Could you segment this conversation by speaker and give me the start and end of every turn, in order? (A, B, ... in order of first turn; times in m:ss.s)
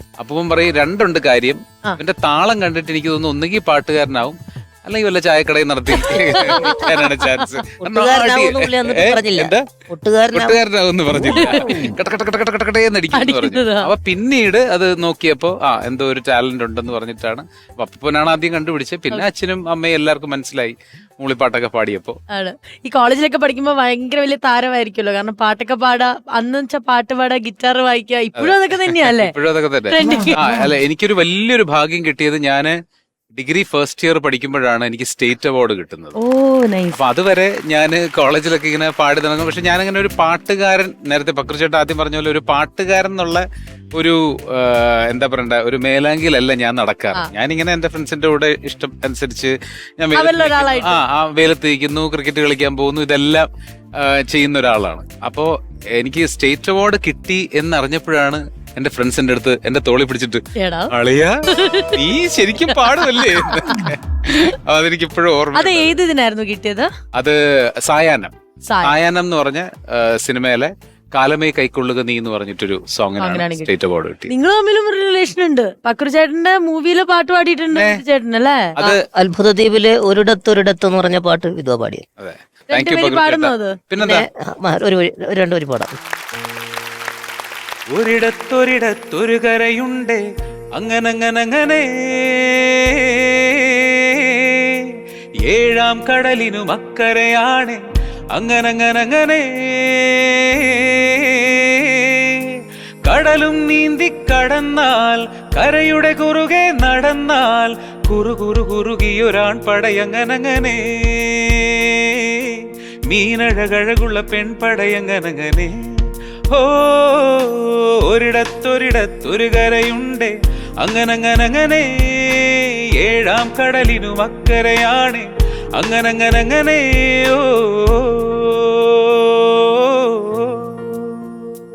0:00.2-0:09.6 A
0:06.0-0:07.2 B
0:07.8-0:10.6 C
0:10.3-0:22.2 A
0:11.3-0:11.9 B
0:11.4-0:11.9 C
0:13.1-0:13.9 B
0:22.3-0:29.3 B
0:28.4-0:32.7 A
0:29.9-0:30.5 B
0:33.3-0:36.2 A
0:36.2-0:37.0 B
0:36.9-0:43.4 A
0:44.0-1:01.4 A
0:50.2-0:51.0 B
1:00.6-1:00.9 B
1:01.5-1:02.0 B
1:01.9-1:06.0 A
1:02.7-1:03.9 B
1:05.5-1:06.9 B
1:07.2-1:14.3 A
1:08.7-1:08.9 B
1:13.2-1:13.7 B
1:14.3-1:18.7 B
1:17.7-1:18.0 A
1:18.8-1:19.0 A
1:18.8-1:22.0 C
1:22.2-1:24.2 A
1:22.7-1:23.8 B
1:24.0-1:26.0 C
1:27.9-1:30.2 A
1:30.8-1:37.8 A
1:38.3-2:11.3 A